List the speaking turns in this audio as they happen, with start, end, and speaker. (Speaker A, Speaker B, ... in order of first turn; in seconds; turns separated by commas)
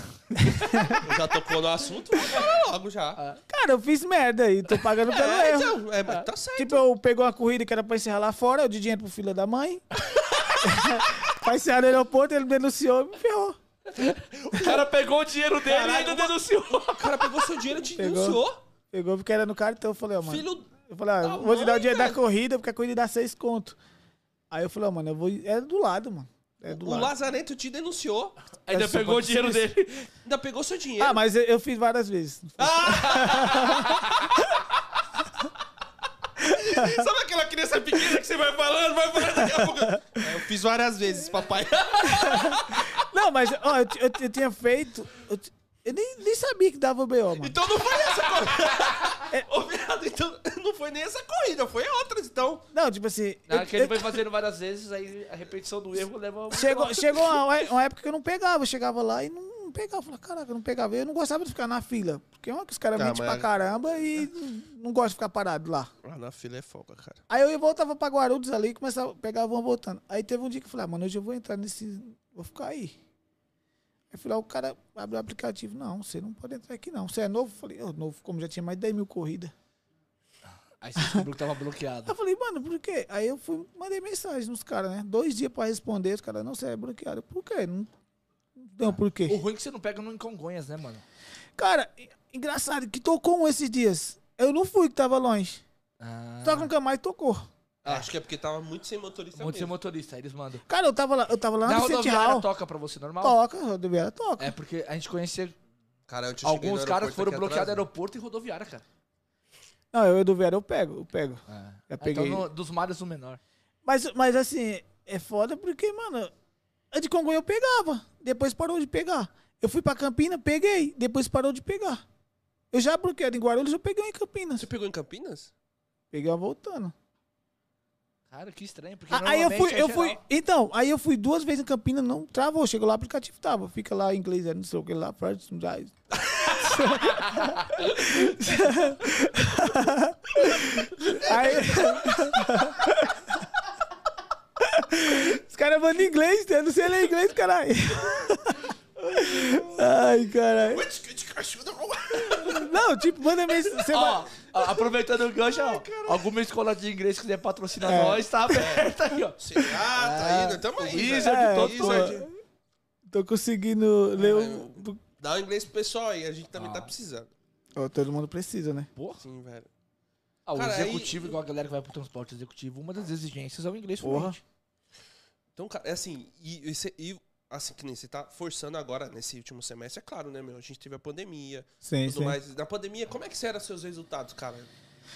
Speaker A: 0.3-0.9, Speaker B: 0.3-1.2, Speaker C: 0.9-3.2, Speaker B: 2.2-2.4, Speaker B: 3.5-5.8, Speaker C: 5.1-6.8, Speaker B: 6.6-9.8, Speaker A: 10.1-11.1, Speaker B: 10.6-13.6, Speaker A: 13.9-17.3, Speaker B: 14.5-14.8, Speaker C: 15.7-16.3, Speaker C: 16.9-18.6, Speaker B: 18.0-23.8, Speaker C: 20.2-22.2, Speaker B: 24.5-27.1, Speaker C: 26.7-28.4, Speaker A: 28.6-30.1, Speaker B: 28.7-29.7, Speaker C: 30.2-31.2, Speaker B: 31.0-34.0, Speaker C: 32.6-34.3, Speaker A: 33.0-34.3, Speaker C: 36.4-43.0, Speaker B: 36.4-37.0, Speaker B: 39.2-40.2, Speaker B: 42.0-47.6, Speaker C: 47.4-52.6, Speaker A: 48.2-49.1, Speaker B: 52.7-54.2, Speaker A: 53.5-57.4, Speaker B: 56.5-65.9, Speaker C: 63.0-63.5, Speaker C: 66.0-67.2, Speaker B: 67.3-73.0, Speaker B: 74.1-79.5, Speaker A: 80.8-82.2, Speaker B: 81.0-81.2, Speaker B: 82.1-87.9, Speaker B: 88.6-89.4, Speaker A: 88.9-91.0, Speaker B: 91.6-95.6, Speaker A: 96.0-96.7, Speaker B: 96.4-97.5, Speaker C: 97.8-99.7, Speaker A: 99.4-100.6, Speaker B: 100.7-102.5, Speaker A: 101.7-103.4, Speaker B: 103.2-104.5, Speaker A: 104.4-105.5, Speaker C: 106.1-107.8, Speaker A: 106.4-108.8, Speaker B: 109.9-112.5, Speaker A: 111.5-113.4, Speaker B: 113.8-116.3, Speaker B: 116.9-122.0, Speaker B: 122.7-124.7, Speaker C: 124.6-125.5, Speaker B: 126.1-126.9, Speaker A: 128.3-130.2, Speaker B: 129.1-143.5, Speaker A: 136.5-138.8, Speaker B: 144.6-150.9, Speaker C: 150.7-152.8, Speaker B: 152.3-154.2, Speaker A: 153.9-162.2, Speaker C: 154.6-154.8, Speaker C: 155.4-156.3, Speaker B: 157.8-158.3, Speaker C: 158.5-162.3, Speaker B: 161.0-162.3, Speaker B: 163.1-165.0, Speaker C: 164.2-167.3, Speaker A: 166.6-166.9, Speaker B: 167.8-168.9, Speaker A: 169.0-169.2, Speaker C: 169.2-169.7, Speaker A: 170.5-174.4, Speaker C: 170.6-171.4, Speaker B: 174.0-174.4, Speaker C: 175.6-184.7, Speaker B: 181.8-182.4